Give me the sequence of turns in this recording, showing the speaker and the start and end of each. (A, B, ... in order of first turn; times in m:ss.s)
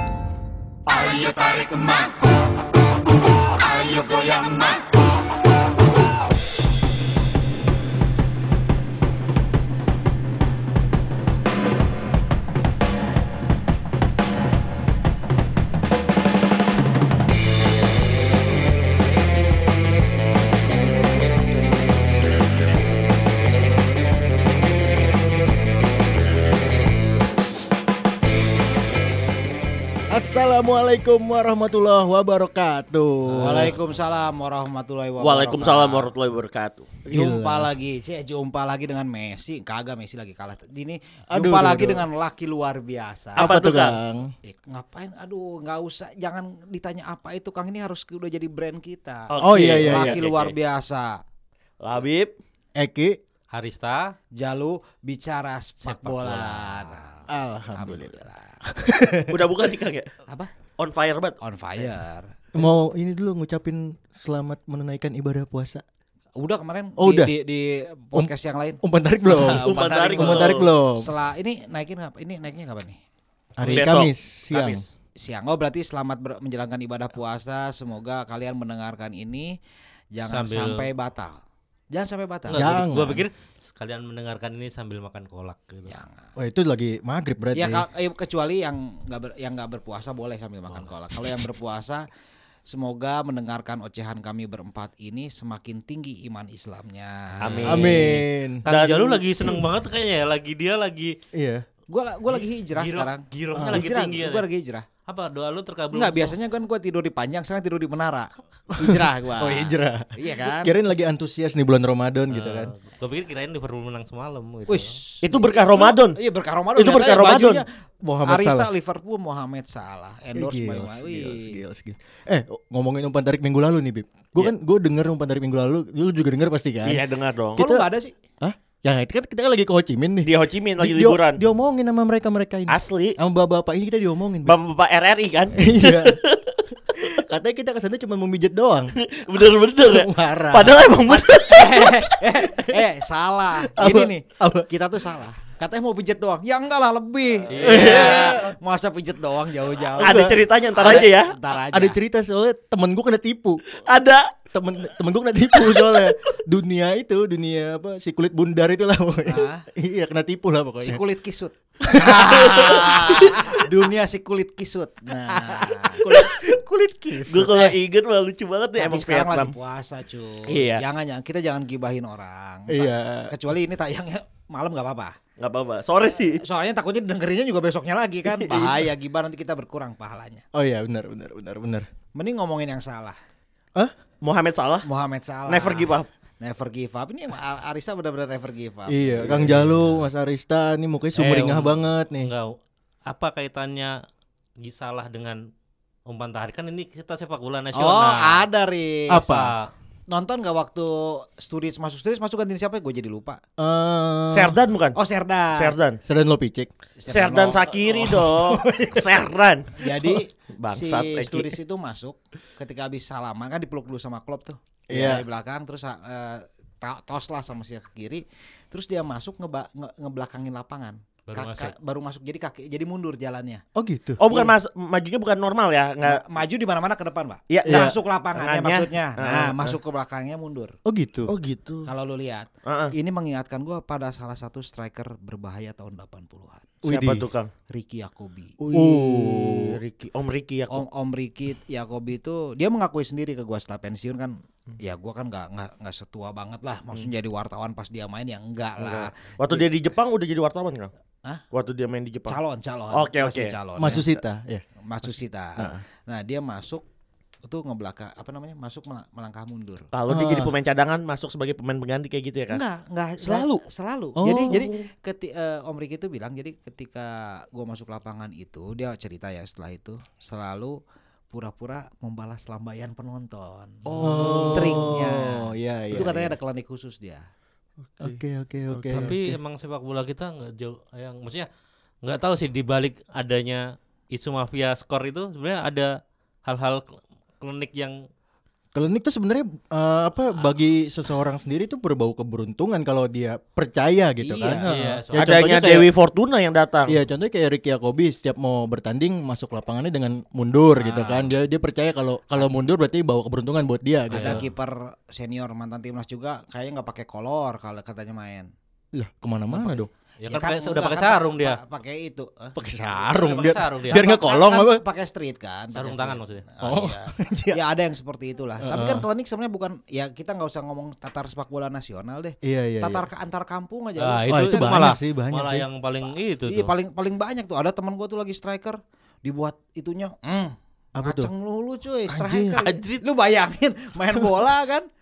0:00.9-0:02.3 A
0:03.2-0:04.8 A
0:30.1-0:33.8 B
0:33.2-0:33.7 C
0:33.4-0:36.1 D
0:35.2-0:36.9 E
0:37.0-0:37.7 B
0:37.1-0:43.5 D
0:41.3-0:42.1 B
0:43.4-0:44.3 B
0:43.4-0:44.0 E
0:44.4-0:51.2 D
0:49.3-0:50.6 E
0:49.4-0:50.2 B
0:51.8-0:52.3 E
0:52.8-0:53.2 B
0:53.5-0:54.1 C
0:54.4-0:58.6 D
0:55.8-0:56.8 C
0:57.3-0:59.5 B
0:59.3-1:00.1 E
1:00.3-1:00.5 D
1:00.8-1:01.4 E
1:01.4-1:02.7 D
1:02.5-1:05.8 B
1:06.4-1:13.0 D
1:07.0-1:07.3 B
1:08.8-1:11.1 B
1:09.4-1:10.7 E
1:13.6-1:14.8 B
1:13.6-1:14.0 C
1:13.7-1:14.8 E
1:15.2-1:19.6 D
1:20.1-1:21.4 D
1:20.3-1:20.9 C
1:21.9-1:23.2 D
1:22.5-1:26.0 C
1:22.5-1:23.2 B
1:25.9-1:26.3 D
1:26.4-1:27.9 B
1:27.6-1:32.0 D
1:32.7-1:37.8 D
1:37.4-1:41.2 C
1:37.4-1:39.6 E
1:37.7-1:38.6 B
1:41.3-1:41.6 B
1:41.9-1:44.9 D
1:42.8-1:44.5 C
1:43.6-1:43.9 B
1:45.1-1:46.3 C
1:45.9-1:50.7 D
1:48.8-1:52.7 B
1:52.3-1:55.0 C
1:54.7-1:57.7 D
1:55.2-1:56.2 E
1:56.8-1:57.6 E
1:58.0-1:58.7 B
1:58.2-2:01.6 D
2:00.3-2:07.0 B
2:06.8-2:07.6 E
2:07.6-2:07.9 B
2:07.6-2:08.2 D
2:08.4-2:14.6 B
2:10.2-2:11.4 E
2:12.7-2:13.2 E
2:14.4-2:17.1 E
2:15.5-2:16.2 B
2:17.2-2:18.9 B
2:19.0-2:22.3 E
2:19.8-2:20.9 B
2:21.1-2:32.0 D
2:23.6-2:24.7 B
2:27.5-2:28.0 C
2:27.6-2:28.6 B
2:27.6-2:28.4 E
2:30.0-2:31.4 E
2:30.0-2:31.1 B
2:31.7-2:33.6 B
2:33.8-2:34.3 E
2:34.5-2:41.0 B
2:35.5-2:36.2 E
2:39.2-2:39.6 D
2:40.8-2:47.8 D
2:41.8-2:43.9 B
2:42.2-2:43.3 E
2:45.5-2:47.3 B
2:46.1-2:46.3 E
2:47.3-2:49.5 E
2:48.8-2:55.2 D
2:50.5-2:50.8 E
2:52.7-2:53.3 B
2:55.4-2:56.4 E
2:56.0-3:00.4 D
2:58.3-2:58.9 B
3:00.5-3:01.9 B
3:02.2-3:03.2 D
3:04.2-3:04.9 E
3:04.8-3:09.8 D
3:05.5-3:06.1 E
3:08.9-3:12.3 B
3:11.2-3:14.0 C
3:14.6-3:15.4 C
3:16.1-3:18.4 C
3:17.8-3:19.5 D
3:19.1-3:19.5 B
3:19.2-3:19.7 C
3:20.1-3:23.4 D
3:23.6-3:24.6 B
3:24.3-3:25.0 E
3:24.9-3:25.8 D
3:25.5-3:26.0 E
3:26.0-3:26.7 B
3:27.0-3:27.8 D
3:27.1-3:29.9 E
3:27.9-3:29.3 B
3:29.8-3:43.6 D
3:30.6-3:31.6 E
3:34.9-3:35.2 B
3:41.3-3:41.7 C
3:43.8-3:44.3 B
3:44.2-3:46.2 E
3:44.3-3:44.5 D
3:46.0-3:50.8 D
3:47.5-3:49.8 E
3:47.6-3:47.9 B
3:50.9-3:51.3 B
3:51.3-3:51.9 E
3:51.9-3:56.8 D
3:52.7-3:52.9 E
3:56.8-3:57.3 B
3:56.8-3:57.5 E
3:57.7-3:58.6 D
3:58.6-3:59.8 B
3:58.7-4:00.8 E
4:00.7-4:09.7 D
4:08.8-4:10.9 E
4:11.5-4:12.4 E
4:12.3-4:14.0 D
4:12.9-4:14.0 E
4:13.8-4:14.6 B
4:14.8-4:16.8 D
4:17.4-4:19.9 D
4:19.9-4:22.6 E
4:20.1-4:20.5 B
4:22.5-4:30.8 D
4:23.2-4:23.6 E
4:24.2-4:24.9 B
4:31.3-4:37.2 D
4:33.9-4:34.9 E
4:34.0-4:36.4 B
4:38.0-4:39.4 B
4:38.9-4:41.5 C
4:42.0-4:45.9 C
4:46.4-4:48.0 C
4:48.7-4:55.9 B
4:54.2-4:54.7 D
4:54.7-4:55.3 C
4:55.2-4:57.0 E
4:56.9-5:04.4 B
5:00.8-5:01.3 D
5:04.1-5:04.4 C
5:04.1-5:08.5 D
5:08.9-5:09.9 B
5:09.5-5:12.6 D
5:10.2-5:11.6 C
5:12.6-5:14.8 B
5:13.1-5:14.0 C
5:13.9-5:24.8 D
5:15.7-5:16.4 C
5:16.6-5:17.6 B
5:18.6-5:19.0 B
5:22.4-5:23.1 B
5:24.0-5:26.7 C
5:24.3-5:25.7 B
5:26.5-5:34.9 D
5:31.0-5:31.3 B
5:32.1-5:32.7 B
5:32.6-5:33.0 C